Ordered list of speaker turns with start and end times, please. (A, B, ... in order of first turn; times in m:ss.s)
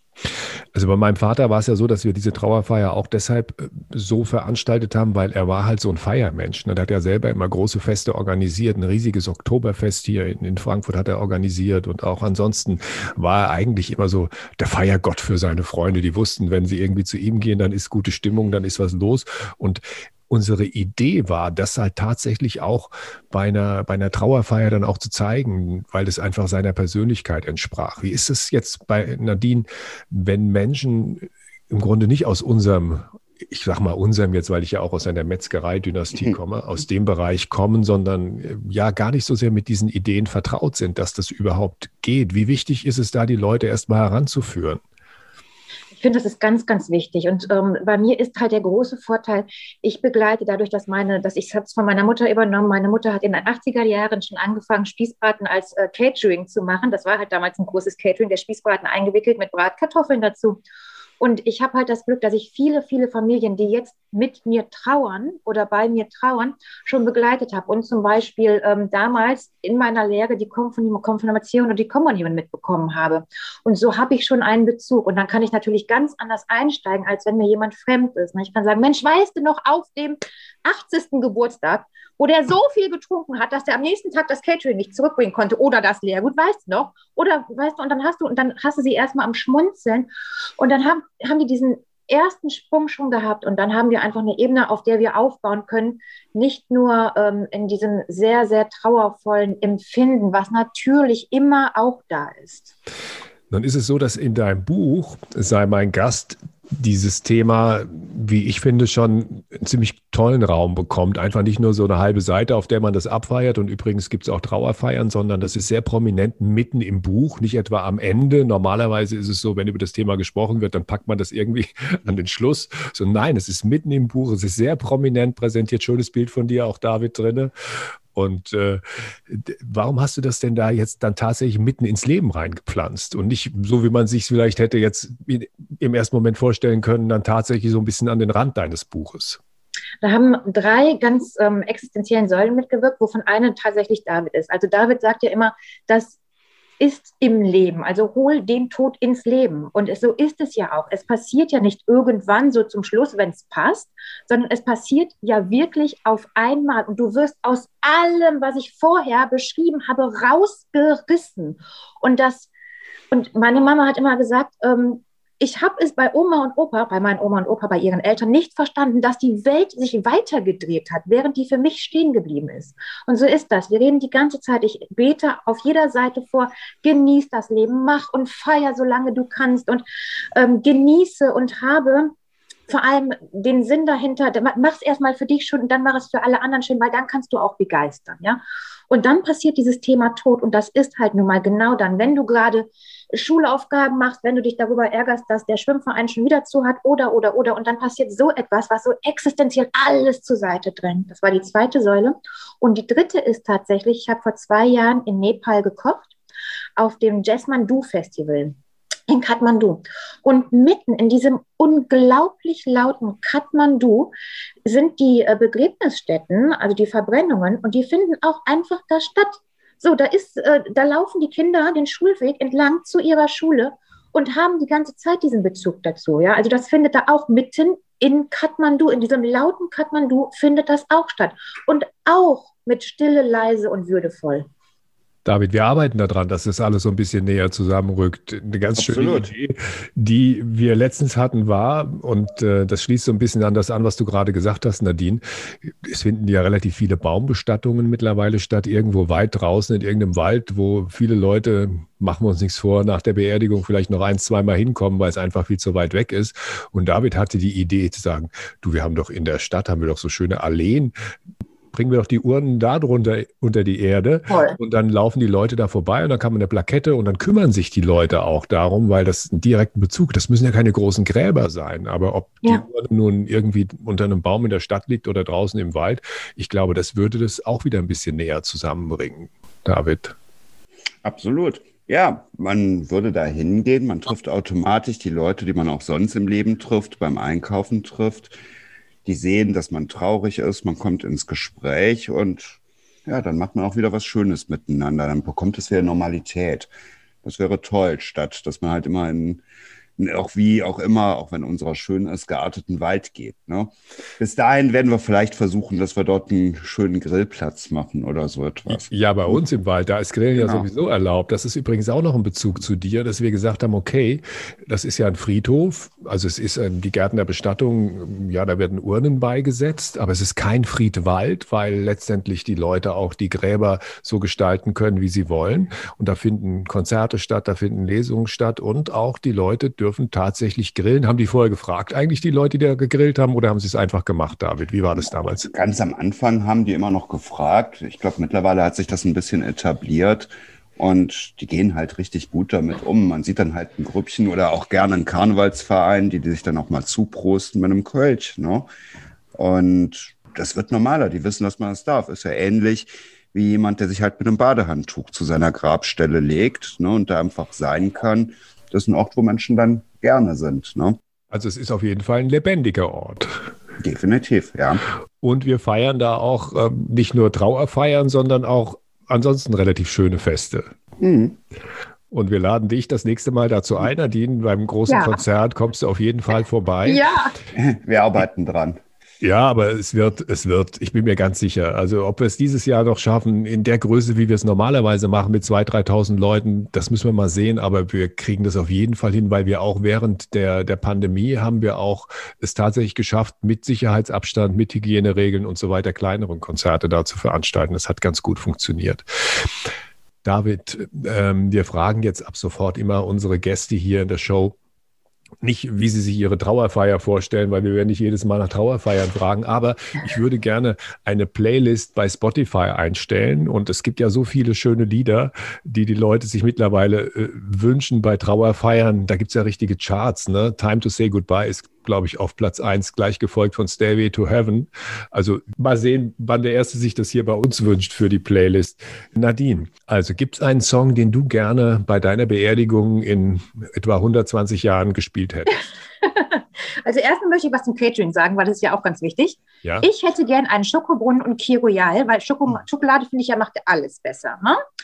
0:00.7-0:44.8 A
0:46.0-1:00.6 B
1:01.2-1:42.7 B
1:43.5-2:07.5 A
2:08.1-2:19.4 A
2:20.0-2:26.2 B
2:26.8-2:42.5 B
2:43.1-3:02.1 B
3:02.7-3:26.1 B
3:26.8-3:28.6 B
3:29.1-3:34.1 B
3:34.6-3:54.5 B
3:55.2-4:20.9 A
3:58.8-3:59.3 C
4:21.7-4:40.1 A
4:24.3-4:24.6 B
4:41.0-4:48.3 C
4:49.0-4:56.7 C
4:57.2-4:59.4 C
5:00.0-5:09.4 C
5:08.7-5:35.5 A
5:10.4-5:10.6 C
5:35.5-5:48.7 C
5:49.4-6:01.0 C
6:01.3-6:03.4 A
6:03.8-6:04.8 C
6:05.2-6:10.7 A
6:11.0-6:11.4 C
6:12.1-6:17.0 A
6:14.9-6:15.2 B
6:16.8-6:17.3 B
6:17.5-6:18.8 C
6:19.2-6:39.0 A
6:40.2-6:44.6 A
6:45.4-7:15.6 A
7:15.5-7:24.6 B